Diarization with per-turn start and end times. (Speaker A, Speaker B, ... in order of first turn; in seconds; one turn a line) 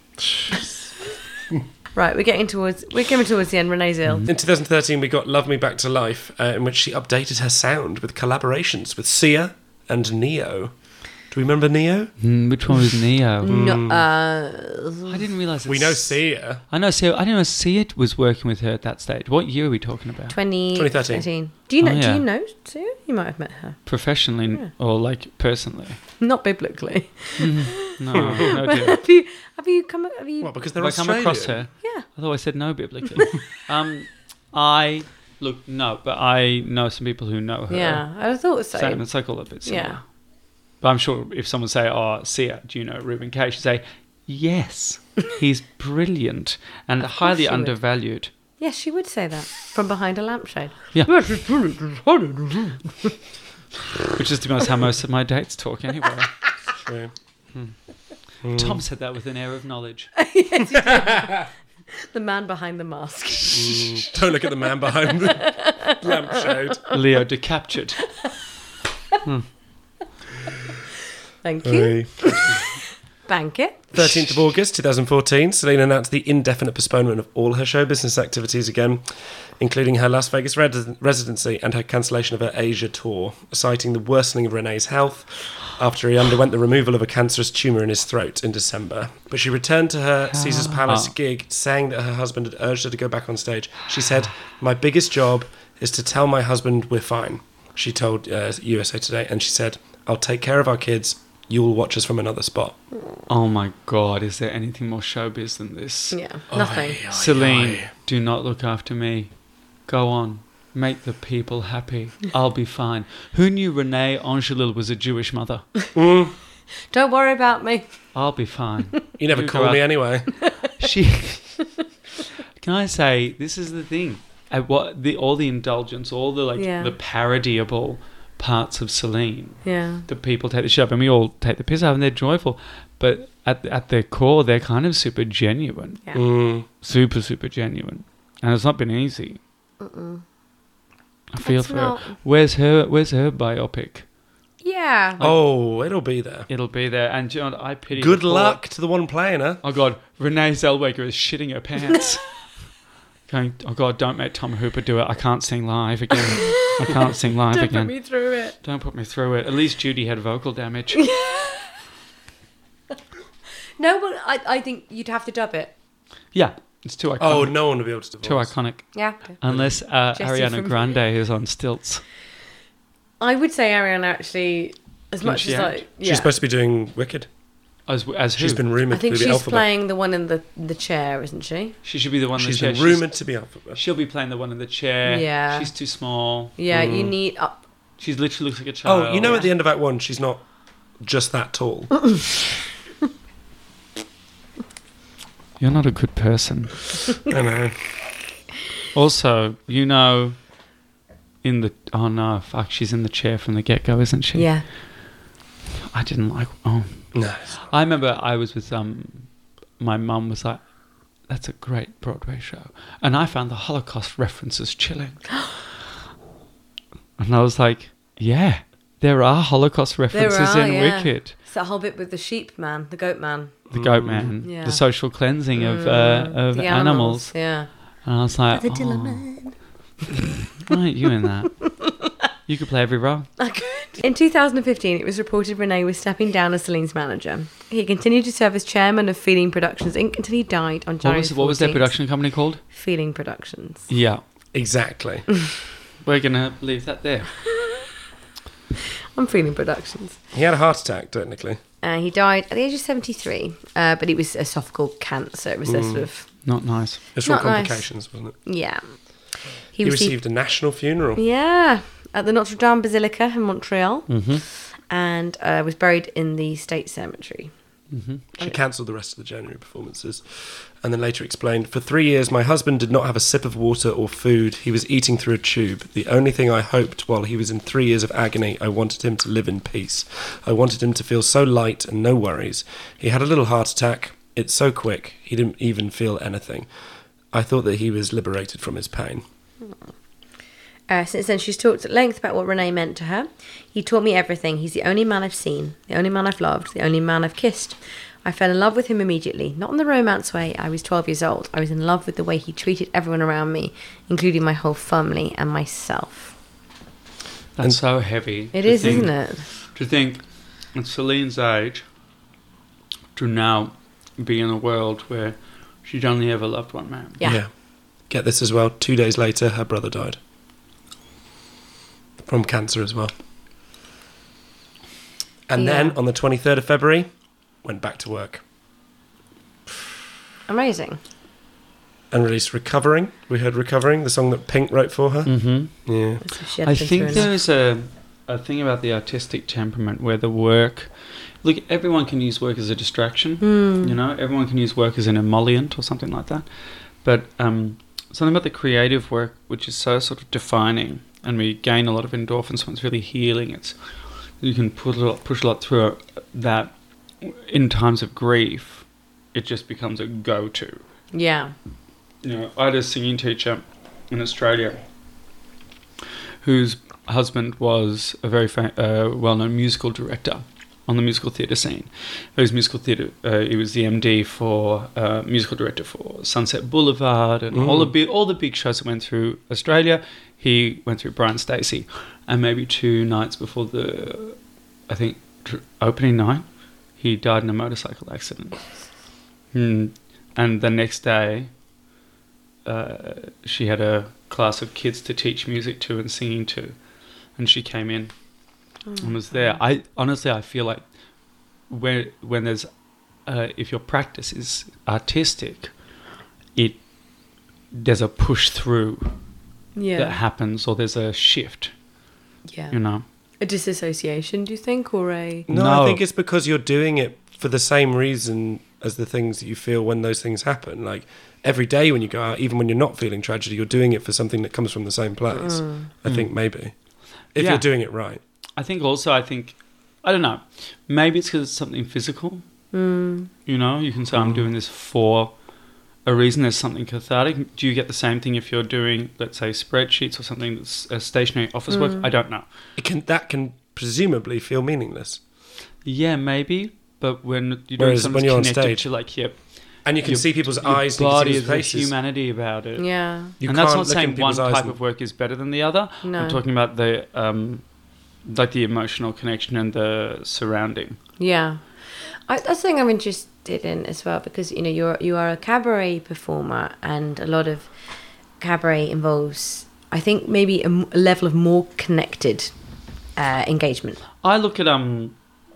Speaker A: 0.3-0.7
Speaker B: 1.9-4.3
Speaker A: 4.3-12.2
Speaker C: 12.2-13.6
Speaker B: 13.4-15.1
Speaker A: 13.5-14.1
Speaker C: 15.1-20.4
Speaker A: 15.7-16.6
Speaker B: 20.3-23.9
Speaker A: 20.7-21.3
Speaker C: 21.8-22.2
Speaker C: 23.9-26.0
Speaker B: 26.2-30.6
Speaker C: 27.4-29.0
Speaker A: 28.1-28.4
Speaker A: 30.4-31.6
Speaker C: 30.8-38.1
Speaker B: 37.7-39.1
Speaker C: 38.7-40.1
Speaker B: 39.6-40.0
Speaker C: 40.8-48.3
Speaker B: 47.2-47.8
Speaker B: 48.6-53.1
Speaker C: 54.1-56.3
Speaker A: 56.8-57.1
Speaker C: 58.4-60.1
Speaker A: 58.4-58.8
Speaker B: 60.2-61.5
Speaker B: 62.0-64.2
Speaker A: 63.5-66.8
Speaker B: 65.1-66.9
Speaker C: 66.9-68.2
Speaker B: 71.4-72.7
Speaker A: 71.6-72.6
Speaker B: 73.3-74.1
Speaker A: 73.9-102.8
Speaker C: 90.3-91.1
Speaker C: 103.3-106.2
Speaker B: 106.1-107.0
Speaker A: 106.5-107.9
Speaker C: 107.1-109.3
Speaker C: 109.9-115.7
Speaker A: 116.0-116.3
Speaker B: 116.9-118.0
Speaker C: 118.1-121.8
Speaker A: 119.2-120.4
Speaker C: 122.6-136.0
Speaker B: 126.6-126.9
Speaker B: 129.6-130.1
Speaker A: 136.1-136.7
Speaker C: 136.8-139.4
Speaker B: 139.8-140.2
Speaker C: 141.3-144.1
Speaker B: 141.4-142.2
Speaker B: 144.6-145.2
Speaker A: 145.2-146.5
Speaker C: 146.5-148.6
Speaker A: 147.9-149.6
Speaker C: 149.6-152.4
Speaker C: 153.3-161.1
Speaker B: 156.4-156.9
Speaker B: 157.5-158.6
Speaker B: 161.0-161.8
Speaker B: 163.8-165.7
Speaker C: 166.3-172.0
Speaker A: 167.2-168.6
Speaker B: 168.9-169.4
Speaker A: 169.4-169.7
Speaker B: 170.1-170.9
Speaker B: 173.2-176.3
Speaker C: 175.2-175.8
Speaker A: 176.0-177.3
Speaker C: 177.9-178.6
Speaker A: 178.4-179.7
Speaker B: 178.9-181.8
Speaker C: 181.8-183.2
Speaker A: 182.4-183.8
Speaker C: 183.7-186.5
Speaker B: 185.1-185.7
Speaker B: 186.6-187.6
Speaker A: 186.7-187.1
Speaker C: 188.0-189.5
Speaker A: 188.8-190.5
Speaker A: 191.0-192.2
Speaker C: 195.6-197.0
Speaker A: 197.3-197.9
Speaker C: 198.9-200.5
Speaker C: 201.4-204.6
Speaker B: 204.3-204.7
Speaker C: 205.9-210.7
Speaker A: 207.1-207.5
Speaker C: 211.2-215.4
Speaker C: 217.2-221.4
Speaker B: 220.1-223.6
Speaker A: 223.7-224.4
Speaker C: 223.7-229.3
Speaker B: 224.4-224.8
Speaker B: 225.6-227.7
Speaker B: 228.5-229.6
Speaker C: 230.5-231.8
Speaker B: 231.7-232.1
Speaker C: 232.5-233.3
Speaker B: 233.4-241.9
Speaker C: 241.0-242.6
Speaker B: 242.7-243.9
Speaker C: 243.9-244.2
Speaker A: 244.5-245.3
Speaker C: 246.0-247.5
Speaker B: 249.2-250.2
Speaker A: 250.3-251.6
Speaker B: 251.8-256.3
Speaker A: 255.7-256.1
Speaker C: 256.4-257.0
Speaker A: 257.1-258.4
Speaker B: 257.2-260.2
Speaker A: 259.8-261.2
Speaker B: 261.2-267.5
Speaker C: 264.1-264.4
Speaker C: 267.9-268.2
Speaker A: 268.4-286.7
Speaker A: 287.3-289.2
Speaker B: 290.9-306.3
Speaker C: 307.6-311.9
Speaker B: 308.5-309.5
Speaker C: 313.1-317.2
Speaker A: 317.2-317.5
Speaker A: 318.1-320.2
Speaker A: 322.2-323.1
Speaker A: 325.5-327.1
Speaker B: 325.6-326.0
Speaker A: 327.6-328.4
Speaker B: 330.5-331.0
Speaker A: 332.1-336.2
Speaker C: 335.3-335.9
Speaker B: 336.2-337.3
Speaker C: 336.6-353.8
Speaker B: 343.4-343.9
Speaker C: 354.4-360.8
Speaker B: 361.1-361.5
Speaker C: 362.2-364.8
Speaker C: 366.4-388.6
Speaker A: 377.5-377.9
Speaker C: 389.5-391.5
Speaker C: 392.6-396.8
Speaker C: 397.4-398.1
Speaker B: 398.9-399.5
Speaker C: 399.0-400.8
Speaker C: 401.7-402.7
Speaker C: 403.3-405.7
Speaker C: 406.6-406.8
Speaker C: 407.7-409.2
Speaker B: 409.8-410.2
Speaker C: 410.0-411.7
Speaker B: 412.5-412.8
Speaker C: 412.7-413.0
Speaker B: 413.4-415.5
Speaker A: 415.5-426.7
Speaker C: 415.5-416.0
Speaker B: 425.3-425.9
Speaker C: 426.1-426.3
Speaker A: 427.3-428.2
Speaker C: 427.4-427.7
Speaker C: 428.6-432.4
Speaker B: 432.7-433.3
Speaker C: 433.5-435.4
Speaker A: 434.1-434.5
Speaker C: 436.0-442.5
Speaker B: 441.7-442.1
Speaker A: 442.8-445.2
Speaker C: 445.9-457.6
Speaker A: 447.8-448.9
Speaker A: 449.8-451.9
Speaker B: 452.8-453.4
Speaker A: 453.4-454.8
Speaker B: 456.0-456.4
Speaker C: 458.2-461.0
Speaker B: 461.2-467.7
Speaker B: 468.4-472.5
Speaker B: 473.2-474.0
Speaker C: 474.2-475.1